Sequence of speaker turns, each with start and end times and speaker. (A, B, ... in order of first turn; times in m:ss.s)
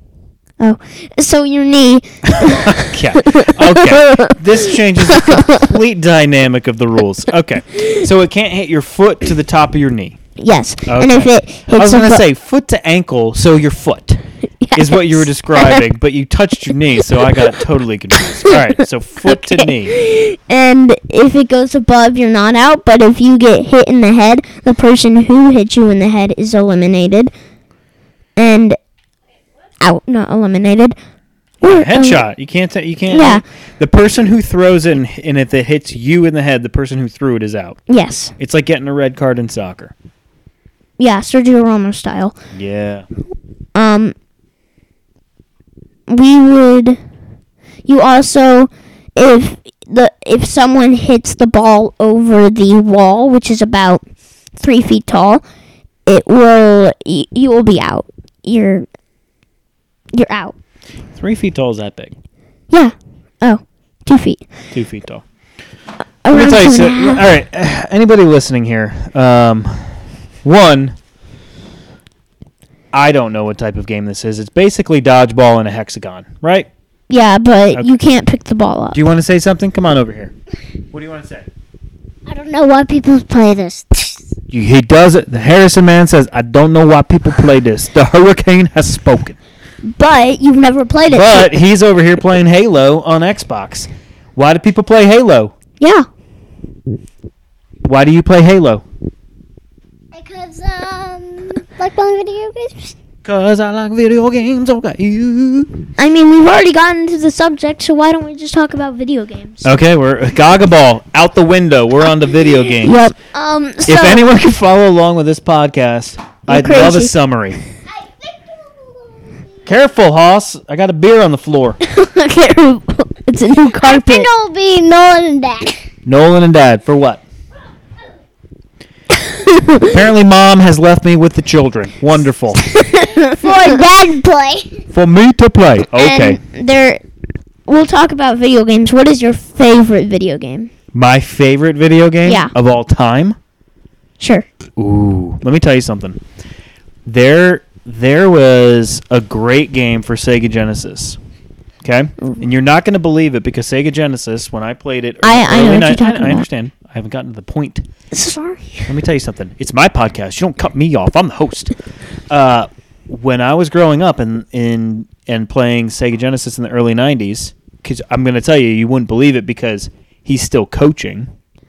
0:00.6-0:05.7 A
0:02.3-0:10.2 B
0:10.4-0:12.2 A
0:10.9-0:14.2 B
0:14.6-0:15.8 A
0:14.7-0:19.9 B
0:18.4-0:18.7 A
0:19.2-0:27.3 A
0:28.4-0:28.8 A
0:29.8-0:31.0 A
0:31.6-0:32.2 A
0:31.6-0:37.8 B
0:33.1-0:33.4 A
0:37.9-0:38.3 A
0:38.4-0:39.9 B
0:41.0-0:42.4 A
0:42.5-0:43.1 B
0:43.8-0:44.2 A
0:46.1-0:47.0 A
0:47.9-0:54.0 A
0:54.6-0:55.4 A
0:56.1-0:58.9 A
1:00.1-1:00.6 A
1:01.2-1:02.1 B
1:02.7-1:04.5 A
1:04.7-1:05.2 B
1:06.2-1:07.3 A
1:06.3-1:11.0 B
1:12.9-1:16.7 B
1:17.1-1:19.0 A
1:18.9-1:20.3 B
1:20.9-1:21.5 B
1:22.3-1:24.2 A
1:24.5-1:29.4 B
1:29.9-1:31.5 A
1:31.1-1:35.5 B
1:35.8-1:36.1 A
1:37.8-1:38.8 B
1:40.2-1:41.6 C
1:41.5-1:43.0 A
1:43.2-1:45.9 B
1:46.0-1:49.7 A
1:49.6-1:53.1 B
1:52.8-1:54.3 A
1:53.8-1:57.6 B
1:56.5-1:57.1 A
1:57.9-1:59.8 C
1:59.7-2:01.8 B
2:01.8-2:04.3 A
2:03.8-2:05.7 C
2:06.0-2:07.2 B
2:09.2-2:09.9 A
2:09.9-2:12.7 B
2:12.7-2:13.9 A
2:13.4-2:14.7 C
2:14.9-2:16.4 B
2:16.0-2:17.0 A
2:17.7-2:20.7 A
2:20.9-2:23.4 B
2:22.2-2:22.5 A
2:24.2-2:24.5 A
2:24.8-2:26.2 B
2:27.1-2:31.2 B
2:31.8-2:37.9 B
2:35.2-2:36.5 A
2:38.1-2:38.9 A
2:38.9-2:41.7 B
2:42.3-2:51.3 B